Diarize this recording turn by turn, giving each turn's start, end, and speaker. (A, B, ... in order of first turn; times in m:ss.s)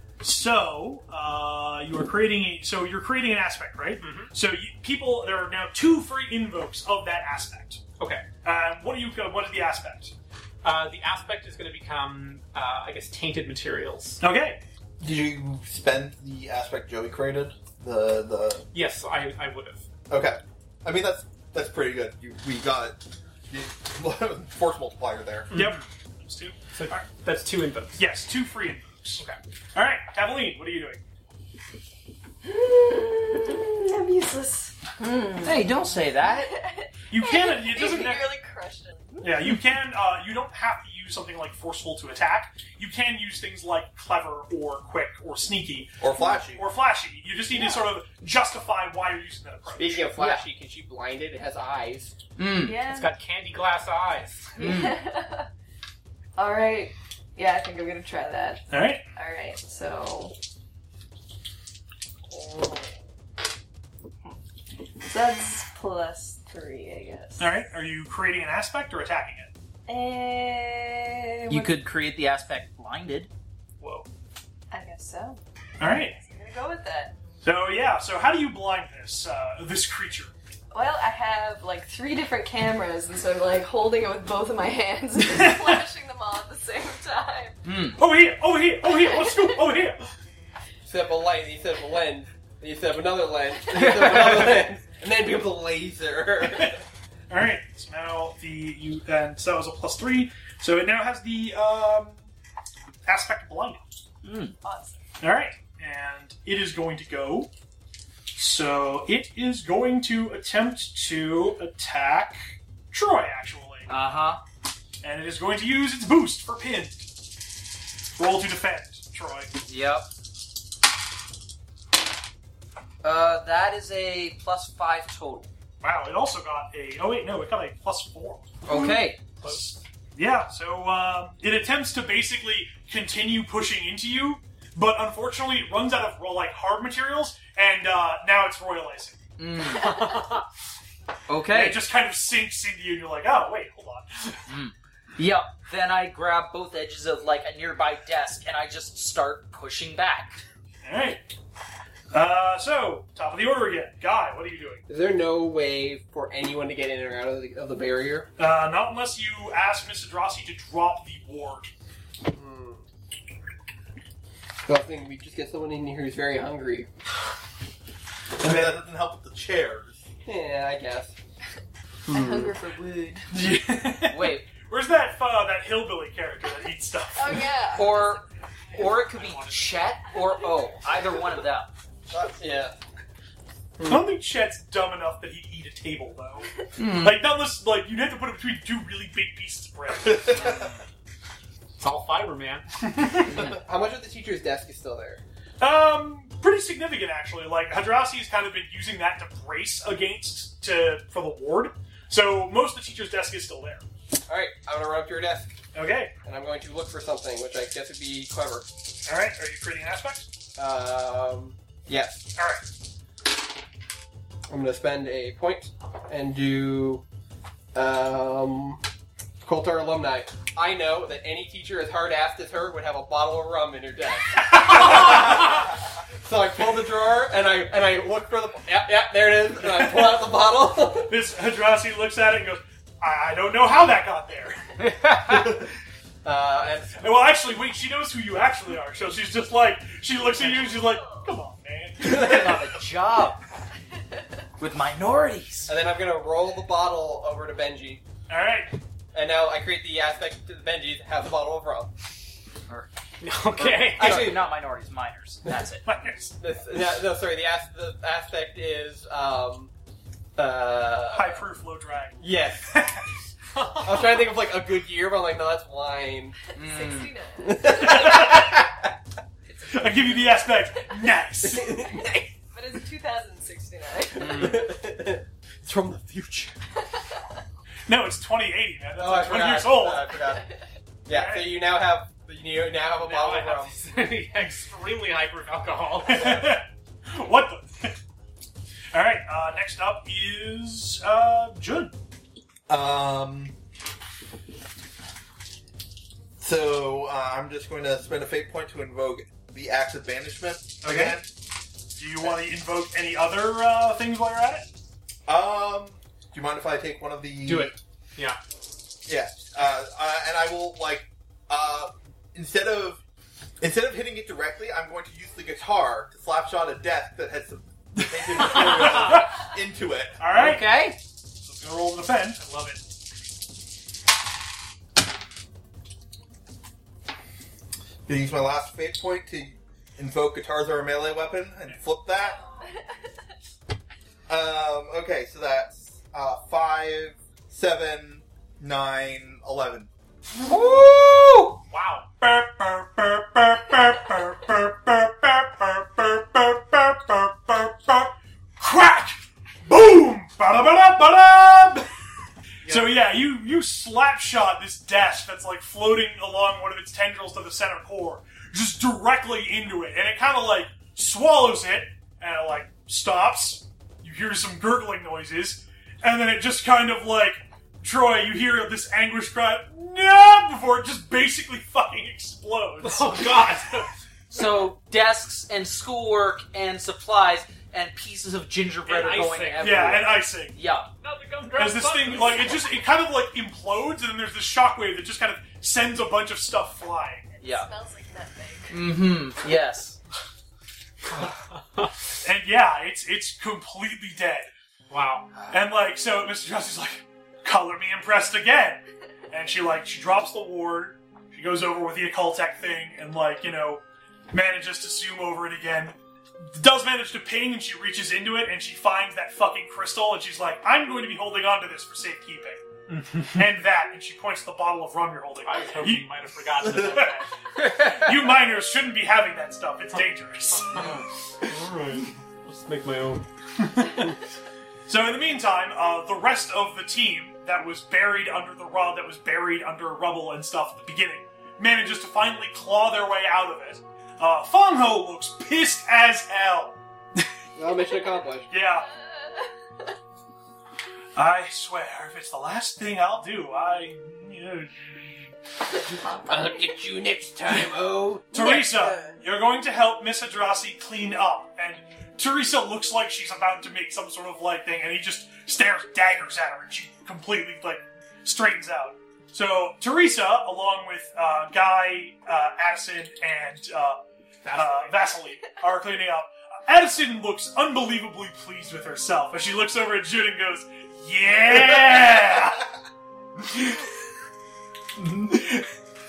0:00.2-0:07.8 A
0:04.0-0:04.3 B
0:08.0-0:08.2 B
0:08.4-0:10.1 A
0:10.6-0:14.2 B
0:14.2-0:14.6 A
0:15.0-0:18.7 C
0:18.7-0:19.8 B
0:20.1-0:23.0 C
0:23.5-0:25.5 C
0:25.5-0:25.8 B
0:25.5-0:27.0 A
0:26.7-0:28.0 B
0:28.0-0:29.2 A
0:29.7-0:31.0 A
0:32.4-0:39.5 D
0:35.4-0:36.5 E
0:37.1-0:38.3 A
0:39.2-0:50.1 A
0:46.0-0:46.6 C
0:47.5-0:47.9 D
0:49.7-0:52.1 F
0:50.1-0:50.4 E
0:52.4-0:52.8 E
0:52.6-0:53.1 D
0:52.8-0:54.5 B
0:54.6-0:55.5 D
0:54.6-0:55.0 E
0:56.4-1:00.3 D
0:58.7-0:59.0 A
1:02.3-1:02.9 D
1:05.0-1:07.6 D
1:07.4-1:09.5 A
1:09.9-1:11.8 D
1:11.5-1:13.3 E
1:13.8-1:14.1 B
1:14.7-1:17.1 D
1:15.8-1:16.1 A
1:17.4-1:20.3 A
1:20.7-1:27.6 D
1:25.2-1:25.8 A
1:27.6-1:28.0 E
1:28.0-1:30.1 A
1:28.9-1:29.5 D
1:30.8-1:36.8 F
1:33.7-1:34.5 E
1:37.3-1:42.2 A
1:43.0-1:43.8 A
1:44.2-1:44.5 E
1:44.6-1:45.0 D
1:45.2-1:47.5 A
1:48.3-1:53.9 A
1:53.9-1:54.4 E
1:55.0-1:57.1 A
1:58.2-1:59.5 A
1:59.7-2:00.1 E
2:03.0-2:05.5 E
2:05.8-2:19.2 A
2:08.6-2:09.2 E
2:09.4-2:09.8 B
2:19.4-2:20.1 E
2:19.8-2:20.4 B
2:21.3-2:21.8 E
2:21.5-2:24.4 A
2:24.5-2:30.4 E
2:30.8-2:31.2 A
2:32.1-2:34.8 A
2:34.9-2:38.3 F
2:38.4-2:41.7 A
2:42.2-2:42.8 F
2:44.6-2:46.9 F
2:48.4-2:50.0 C
2:48.4-2:48.8 A
2:50.2-2:51.2 F
2:52.1-2:52.5 F
2:52.1-2:53.3 D
2:53.3-2:57.5 A
2:54.0-2:54.5 E
2:57.2-2:58.9 D
2:57.7-2:58.2 E
2:58.7-3:01.7 E
2:59.2-2:59.6 B
3:02.1-3:02.8 F
3:03.8-3:04.0 F
3:03.8-3:10.5 A
3:06.7-3:07.2 E
3:10.0-3:10.7 C
3:11.8-3:12.6 B
3:12.8-3:13.4 A
3:13.2-3:13.6 E
3:13.5-3:15.2 F
3:15.6-3:23.8 A
3:24.3-3:25.6 F
3:25.7-3:26.1 A
3:26.2-3:28.7 F
3:29.0-3:30.3 A
3:30.6-3:32.3 F
3:32.4-3:32.7 A
3:34.5-3:37.0 F
3:37.7-3:38.8 F
3:39.4-3:51.1 F
3:44.4-3:45.4 A
3:51.0-3:54.8 A
3:54.8-3:55.6 E
3:56.2-3:57.1 F
3:57.0-4:02.7 A
4:00.8-4:01.2 D
4:02.0-4:02.7 F
4:02.1-4:03.4 E
4:04.6-4:05.7 E
4:05.7-4:08.0 F
4:08.3-4:08.8 A
4:09.1-4:11.9 F
4:13.2-4:14.4 B
4:13.5-4:15.8 E
4:14.0-4:14.4 F
4:15.8-4:16.4 A
4:16.4-4:19.7 F
4:20.4-4:21.4 F
4:21.1-4:23.0 A
4:22.2-4:22.8 F
4:23.5-4:24.2 B
4:23.8-4:26.4 F
4:26.5-4:27.1 E
4:26.5-4:28.6 D
4:27.4-4:28.8 F
4:27.8-4:28.4 A
4:29.7-4:31.8 A
4:29.7-4:34.5 D
4:31.4-4:32.3 F
4:34.2-4:34.7 E
4:34.2-4:36.6 F
4:36.9-4:37.2 D
4:37.9-4:40.1 A
4:39.0-4:40.4 F
4:41.0-4:43.8 F
4:41.1-4:41.6 A
4:43.0-4:46.4 B
4:46.0-4:48.0 A
4:48.9-4:51.9 A
4:52.7-4:53.5 C
4:56.4-5:01.3 C
5:00.8-5:01.2 A
5:01.9-5:04.6 A
5:05.3-5:07.7 C
5:07.4-5:08.4 B
5:09.0-5:13.0 C
5:13.6-5:20.2 C
5:18.0-5:19.5 A
5:20.2-5:20.7 A
5:20.3-5:21.0 E
5:21.4-5:22.8 A
5:28.0-5:32.4 C
5:32.1-5:33.1 D
5:34.3-5:39.9 C
5:40.4-5:41.6 E
5:41.7-5:42.1 B
5:42.2-5:51.9 A
5:52.6-6:13.6 A
6:12.8-6:13.9 B
6:14.3-6:20.9 E
6:18.8-6:20.1 B
6:19.6-6:20.6 A
6:21.0-6:22.8 B
6:21.6-6:27.3 A
6:27.4-6:27.7 E
6:27.4-6:28.8 D
6:28.7-6:30.0 E
6:31.1-6:31.9 B
6:32.2-6:34.5 A
6:34.9-6:35.3 B
6:35.5-7:01.0 A
6:52.9-6:53.4 B
6:55.4-6:57.3 B
7:00.7-7:03.2 B
7:03.6-7:04.1 A
7:03.8-7:04.1 B
7:04.9-7:17.2 A
7:17.6-7:18.5 F
7:18.5-7:18.9 A
7:21.2-7:25.2 A
7:25.7-7:26.6 D
7:26.3-7:29.0 F
7:28.3-7:44.0 A
7:44.4-7:45.2 B
7:44.5-7:52.7 A
7:53.4-7:53.9 A
7:55.0-7:55.7 A